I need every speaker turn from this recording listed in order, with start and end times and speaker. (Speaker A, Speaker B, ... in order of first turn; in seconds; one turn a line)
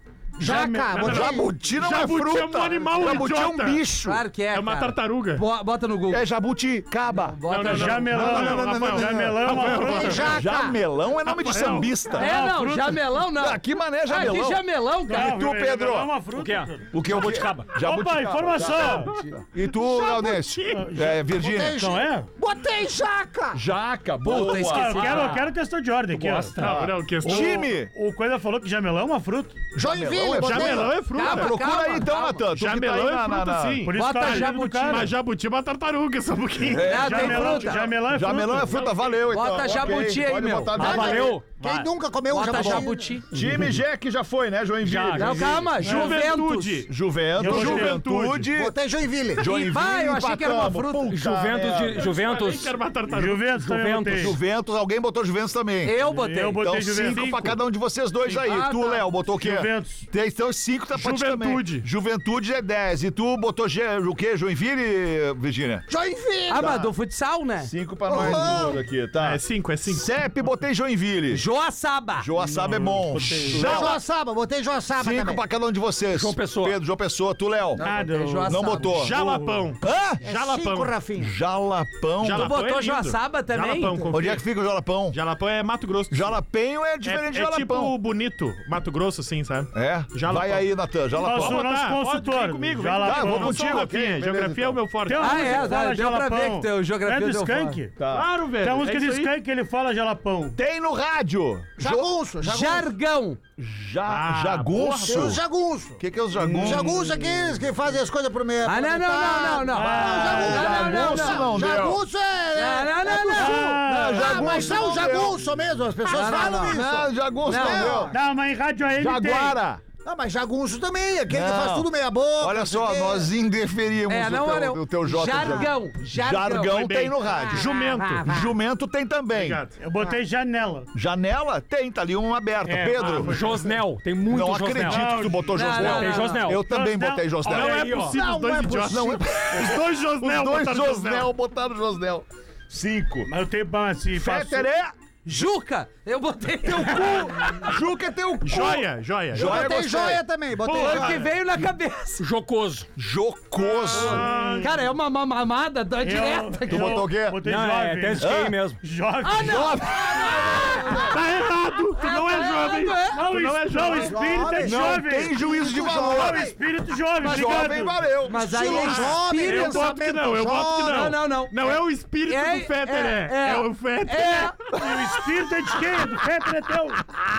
Speaker A: 0.4-1.1
Speaker B: 0.4-1.5
Speaker C: 0.9-3.8
Speaker D: 0.9-4.2
Speaker E: 4.0-6.2
Speaker C: 4.5-5.4
Speaker D: 6.1-12.3
Speaker E: 7.1-8.2
Speaker C: 7.5-10.4
Speaker A: 7.6-10.3
Speaker B: 9.7-10.8
Speaker C: 11.3-12.0
Speaker A: 12.2-13.1
Speaker E: 12.2-15.4
Speaker D: 13.4-16.1
Speaker A: 15.1-17.0
Speaker F: 16.3-17.8
Speaker D: 16.9-21.8
Speaker A: 17.8-19.1
Speaker C: 18.8-20.9
Speaker A: 20.7-22.3
Speaker B: 21.4-23.6
Speaker D: 23.5-25.3
Speaker E: 24.2-25.4
Speaker A: 24.3-26.6
Speaker F: 25.0-25.5
Speaker F: 26.1-26.9
Speaker C: 26.6-27.7
Speaker D: 26.6-27.9
Speaker A: 27.2-29.6
Speaker D: 29.8-33.8
Speaker B: 29.8-30.9
Speaker C: 30.2-31.6
Speaker E: 31.1-32.5
Speaker C: 32.5-37.4
Speaker A: 33.8-35.1
Speaker E: 33.9-35.1
Speaker D: 36.6-41.4
Speaker A: 36.8-38.8
Speaker E: 36.8-37.9
Speaker C: 38.4-39.2
Speaker E: 39.3-41.1
Speaker F: 40.8-41.9
Speaker B: 40.8-43.2
Speaker E: 42.3-43.3
Speaker F: 42.5-42.8
Speaker D: 43.3-45.7
Speaker A: 43.4-43.6
Speaker F: 44.8-45.9
Speaker E: 45.2-46.9
Speaker C: 45.8-48.5
Speaker A: 45.9-46.2
Speaker D: 46.9-48.8
Speaker A: 47.4-48.0
Speaker B: 48.5-49.5
Speaker D: 49.4-52.1
Speaker E: 49.4-51.1
Speaker F: 51.1-52.8
Speaker C: 52.0-53.5
Speaker A: 53.1-54.4
Speaker F: 53.5-54.3
Speaker D: 54.1-55.9
Speaker E: 55.8-56.6
Speaker A: 56.0-57.3
Speaker D: 56.6-65.9
Speaker C: 57.0-57.6
Speaker E: 58.2-59.1
Speaker A: 59.4-60.0
Speaker C: 61.0-61.9
Speaker B: 65.9-66.8
Speaker E: 66.5-68.3
Speaker D: 66.5-66.9
Speaker D: 67.6-71.4
Speaker B: 68.1-68.8
Speaker C: 69.2-70.1
Speaker E: 71.3-72.3
Speaker D: 72.2-74.0
Speaker A: 72.4-74.0
Speaker B: 73.5-75.4
Speaker D: 75.0-77.8
Speaker F: 76.1-76.8
Speaker E: 77.8-79.0
Speaker A: 77.8-79.7
Speaker D: 78.5-79.2
Speaker C: 79.0-80.9
Speaker D: 79.8-80.2
Speaker B: 80.2-81.3
Speaker D: 81.2-82.5
Speaker C: 82.2-84.5
Speaker E: 82.3-84.1
Speaker D: 84.1-85.2
Speaker C: 85.1-86.3
Speaker D: 86.1-87.9
Speaker C: 87.0-95.7
Speaker D: 89.7-91.6
Speaker A: 91.2-93.7
Speaker D: 93.0-94.8
Speaker A: 95.1-97.9
Speaker E: 95.2-97.8
Speaker D: 98.0-98.3
Speaker C: 98.1-99.3
Speaker A: 98.6-100.6
Speaker D: 100.6-102.1
Speaker B: 101.8-102.9
Speaker E: 102.4-103.4
Speaker D: 103.6-105.4
Speaker C: 104.1-105.3
Speaker B: 104.8-106.0
Speaker D: 106.0-106.9
Speaker A: 106.4-107.5
Speaker B: 106.6-118.2
Speaker E: 108.6-111.5
Speaker A: 109.7-110.7
Speaker D: 110.1-112.0
Speaker E: 112.5-113.7
Speaker A: 113.4-114.7
Speaker D: 113.8-115.4
Speaker E: 116.1-116.8
Speaker D: 116.2-118.2
Speaker E: 117.5-118.1
Speaker A: 118.1-119.6
Speaker D: 119.0-119.8
Speaker B: 120.0-123.3
Speaker D: 121.3-129.6
Speaker E: 124.1-126.9
Speaker C: 126.7-128.4
Speaker C: 129.3-129.8
Speaker A: 129.8-130.9
Speaker D: 130.9-133.3
Speaker A: 132.7-133.3
Speaker C: 133.0-133.6
Speaker F: 133.2-136.7
Speaker D: 134.3-138.0
Speaker A: 134.8-135.9
Speaker E: 135.5-136.5
Speaker A: 136.5-137.6
Speaker C: 137.4-141.3
Speaker F: 137.5-138.2
Speaker B: 138.1-139.3
Speaker D: 138.8-143.3
Speaker A: 143.3-144.7
Speaker D: 144.2-144.9
Speaker E: 145.2-147.7
Speaker D: 146.7-150.2
Speaker C: 148.4-149.7
Speaker B: 149.3-151.2
Speaker C: 150.6-151.3
Speaker E: 150.7-152.3
Speaker F: 152.2-152.9
Speaker D: 153.0-154.3
Speaker C: 153.9-154.7
Speaker E: 153.9-157.1
Speaker A: 154.0-154.8
Speaker A: 156.0-159.8
Speaker D: 156.7-157.4
Speaker F: 157.4-158.8
Speaker D: 158.2-158.6
Speaker E: 159.2-161.2
Speaker D: 159.4-161.0
Speaker B: 160.2-161.1
Speaker C: 161.1-164.3
Speaker E: 162.0-163.2
Speaker A: 163.1-168.0
Speaker B: 163.8-166.6
Speaker D: 164.6-166.5
Speaker D: 167.2-169.2
Speaker E: 168.3-169.9
Speaker B: 168.4-171.2
Speaker C: 168.9-174.7
Speaker E: 170.8-174.6
Speaker A: 174.7-177.0